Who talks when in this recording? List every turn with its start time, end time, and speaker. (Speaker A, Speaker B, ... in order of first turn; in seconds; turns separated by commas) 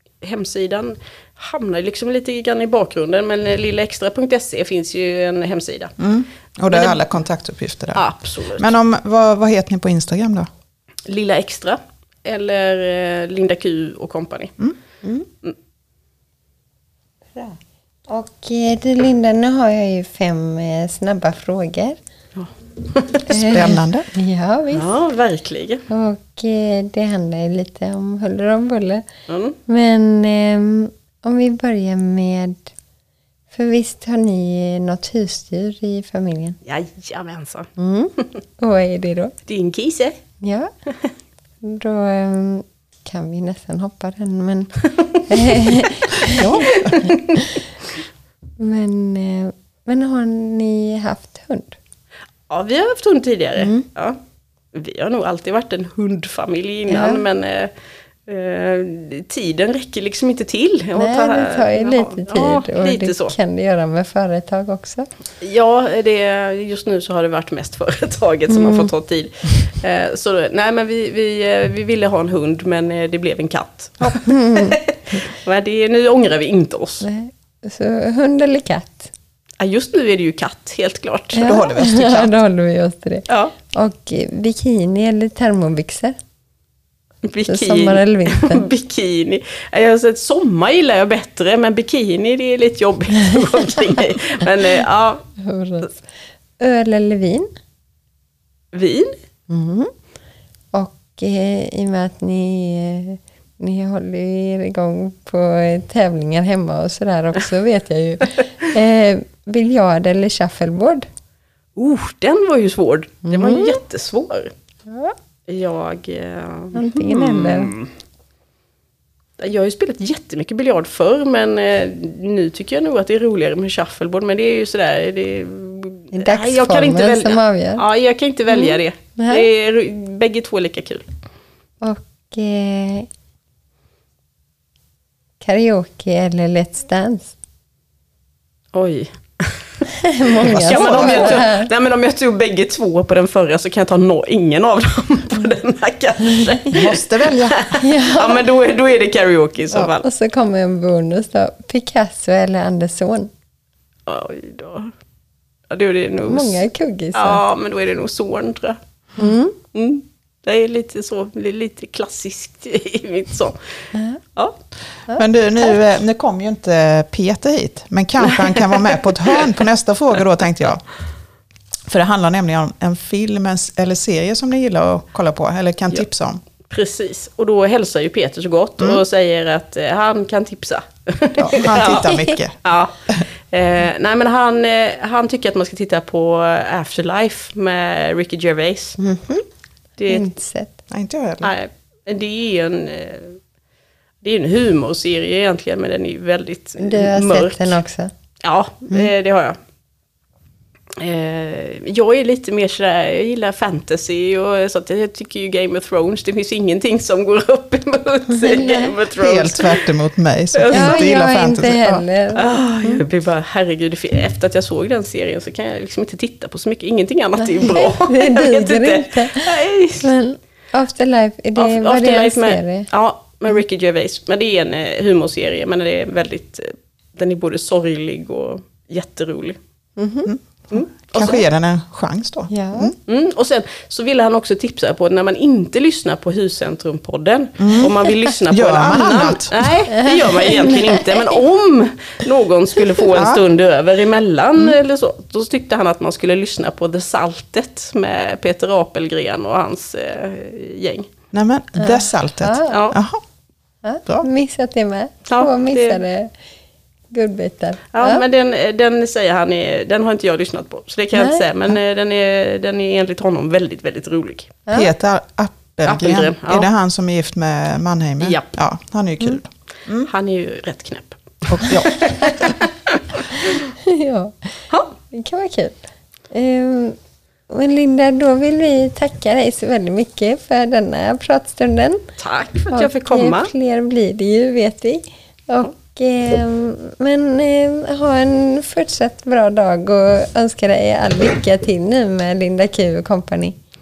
Speaker A: 0.2-5.9, Speaker B: 6.0-10.5, Speaker A: 6.7-7.0, Speaker A: 7.9-8.7, Speaker A: 11.1-14.5, Speaker C: 18.1-22.0, Speaker A: 22.4-23.6, Speaker C: 23.3-24.9, Speaker B: 23.3-24.1, Speaker A: 24.7-25.8, Speaker C: 25.9-29.0, Speaker A: 29.3-29.6, Speaker C: 29.7-32.7, Speaker C: 33.5-36.6, Speaker A: 36.6-37.7, Speaker C: 37.8-39.3, Speaker A: 39.5-40.2, Speaker C: 40.4-40.7, Speaker C: 41.6-47.6, Speaker B: 46.3-47.0, Speaker A: 46.8-47.2, Speaker C: 48.6-51.8, Speaker A: 52.5-54.2, Speaker C: 53.6-53.9, Speaker A: 54.7-57.7, Speaker C: 56.9-57.2, Speaker A: 58.3-63.3, Speaker C: 60.9-65.0, Speaker A: 65.4-77.0, Speaker C: 68.5-68.9, Speaker C: 74.2-74.8, Speaker C: 77.0-79.1, Speaker A: 79.6-81.6, Speaker C: 81.3-86.2, Speaker B: 81.4-82.3, Speaker A: 83.3-83.5, Speaker A: 87.2-95.2, Speaker C: 87.5-88.7, Speaker C: 95.4-97.5, Speaker A: 98.7-99.1, Speaker C: 99.5-99.9, Speaker C: 100.7-111.1, Speaker A: 111.8-114.5, Speaker C: 113.2-113.8, Speaker C: 114.9-115.1, Speaker A: 115.5-117.9, Speaker C: 116.7-117.7, Speaker A: 119.4-131.1, Speaker C: 126.1-127.8, Speaker C: 128.5-129.5, Speaker C: 131.8-133.1, Speaker C: 135.4-137.3, Speaker A: 138.7-139.1, Speaker C: 140.0-141.7, Speaker A: 140.4-150.0, Speaker B: 140.4-141.4, Speaker B: 146.7-147.6, Speaker C: 147.8-148.4, Speaker C: 149.7-153.3, Speaker A: 154.1-154.9, Speaker A: 155.7-156.6, Speaker C: 156.3-157.4, Speaker A: 157.1-158.8, Speaker C: 159.2-159.5, Speaker A: 159.7-163.6, Speaker C: 163.9-164.2, Speaker C: 165.1-165.8, Speaker B: 165.2-170.8, Speaker B: 171.9-176.4, Speaker A: 176.7-182.9, Speaker B: 181.4-182.6, Speaker C: 181.8-182.3, Speaker A: 183.5-189.0, Speaker C: 189.0-189.4, Speaker A: 190.0-190.3, Speaker C: 190.1-190.7, Speaker B: 190.9-191.5, Speaker A: 191.4-193.4, Speaker A: 194.2-197.8, Speaker C: 196.8-198.1, Speaker A: 198.4-199.6, Speaker A: 201.0-209.9, Speaker C: 208.3-208.9, Speaker B: 209.2-212.1, Speaker A: 210.5-211.0, Speaker C: 210.7-213.0, Speaker A: 212.3-220.1, Speaker C: 217.4-222.9, Speaker A: 221.6-229.6, Speaker C: 230.0-230.3, Speaker A: 230.7-231.4, Speaker B: 231.1-232.9, Speaker C: 232.5-232.9, Speaker A: 233.1-251.1, Speaker B: 237.6-237.9, Speaker B: 238.5-239.7, Speaker C: 239.9-241.1, Speaker B: 243.1-243.4, Speaker B: 251.3-253.2, Speaker C: 251.8-252.9, Speaker A: 252.7-253.0, Speaker C: 253.8-256.3, Speaker A: 255.3-256.0, Speaker C: 257.1-258.2, Speaker A: 257.9-264.6, Speaker C: 261.1-261.5, Speaker B: 264.7-270.1, Speaker A: 265.9-266.7, Speaker A: 268.2-268.5, Speaker A: 270.1-272.9, Speaker B: 271.5-272.2, Speaker C: 273.9-274.5, Speaker C: 275.1-276.9, Speaker C: 277.5-282.0, Speaker A: 282.2-283.5, Speaker C: 282.7-293.6